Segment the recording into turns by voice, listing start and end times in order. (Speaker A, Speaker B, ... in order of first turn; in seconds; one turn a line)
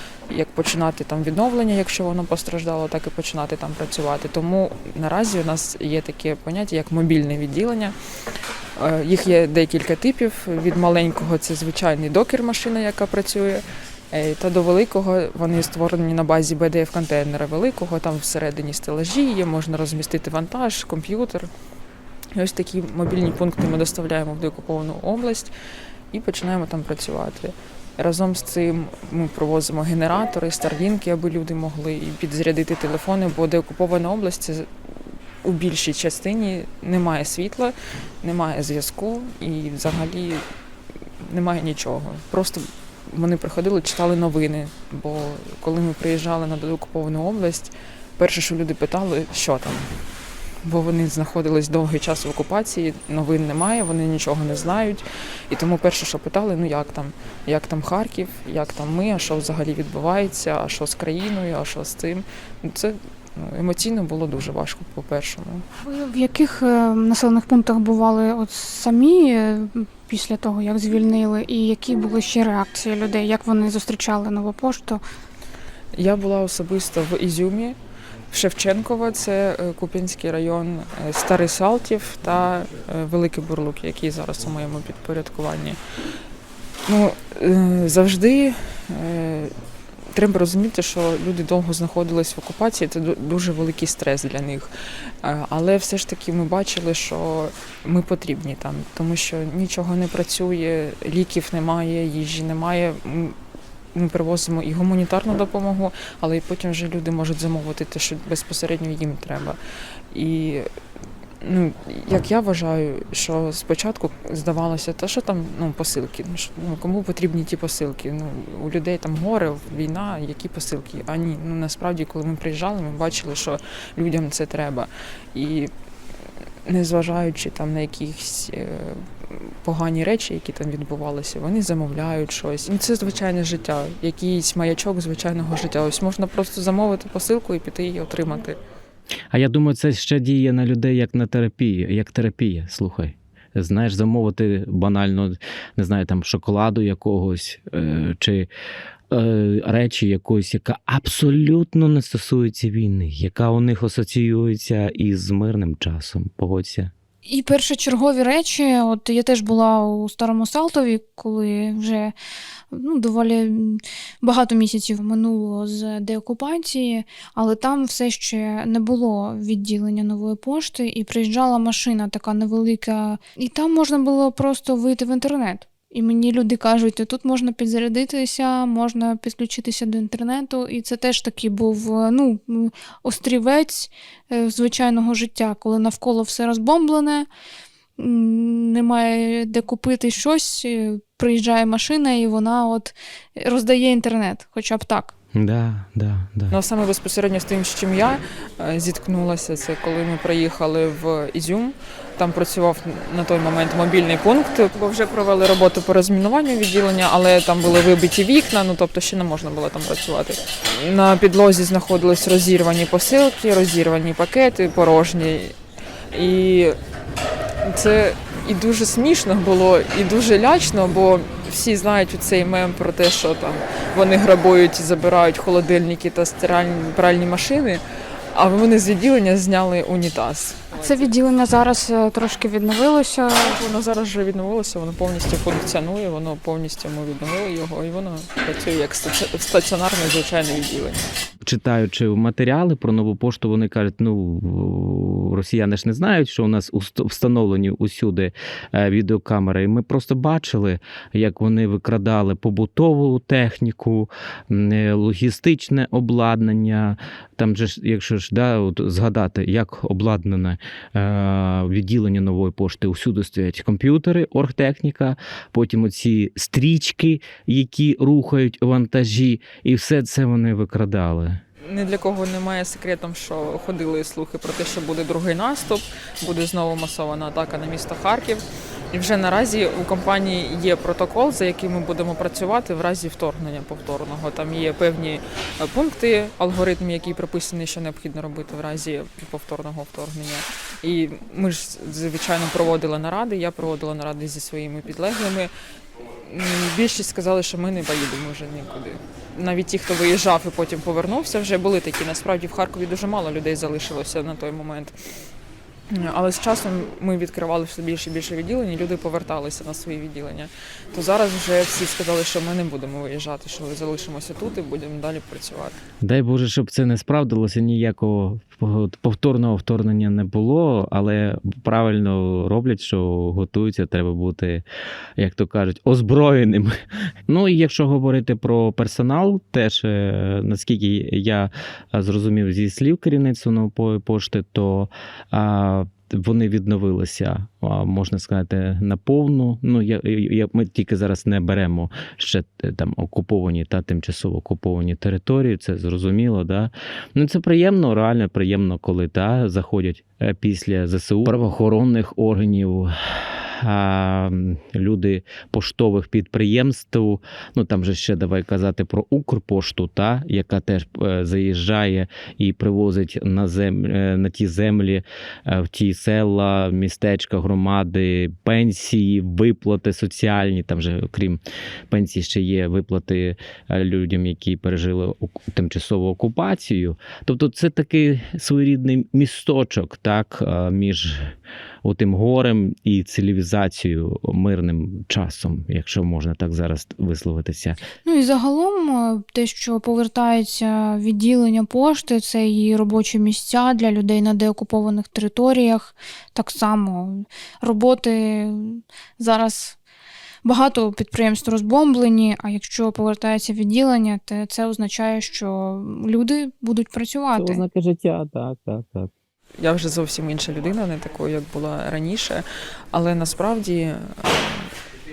Speaker A: 0.3-7.9
Speaker A: 8.8-21.5
Speaker A: 22.3-25.5
Speaker A: 26.1-34.7
Speaker A: 35.4-40.4
Speaker A: 41.2-49.9
Speaker A: 50.6-65.7
Speaker B: 65.8-75.0
Speaker A: 75.9-77.8
Speaker A: 78.3-85.8
Speaker A: 86.8-89.5
Speaker A: 90.1-94.7
Speaker A: 95.2-103.3
Speaker A: 103.9-109.6
Speaker A: 110.1-110.7
Speaker A: 111.4-125.7
Speaker A: 126.7-138.6
Speaker C: 139.3-148.5
Speaker C: 149.1-156.9
Speaker B: 157.2-162.1
Speaker B: 162.7-187.3
Speaker B: 188.0-195.1
Speaker C: 195.3-196.6
Speaker A: 196.5-215.6
Speaker A: 216.1-216.8
Speaker A: 217.6-227.8
Speaker A: 228.3-231.1
Speaker B: 230.8-233.5
Speaker A: 233.4-241.1
Speaker C: 241.4-271.4
Speaker A: 271.6-295.5
Speaker A: 296.2-304.9
Speaker A: 305.9-315.8
Speaker C: 316.0-324.6
Speaker C: 325.2-326.8
Speaker C: 327.3-381.3
Speaker C: 381.8-387.8
Speaker B: 388.0-399.8
Speaker B: 400.4-407.6
Speaker C: 407.3-409.1
Speaker A: 409.6-414.7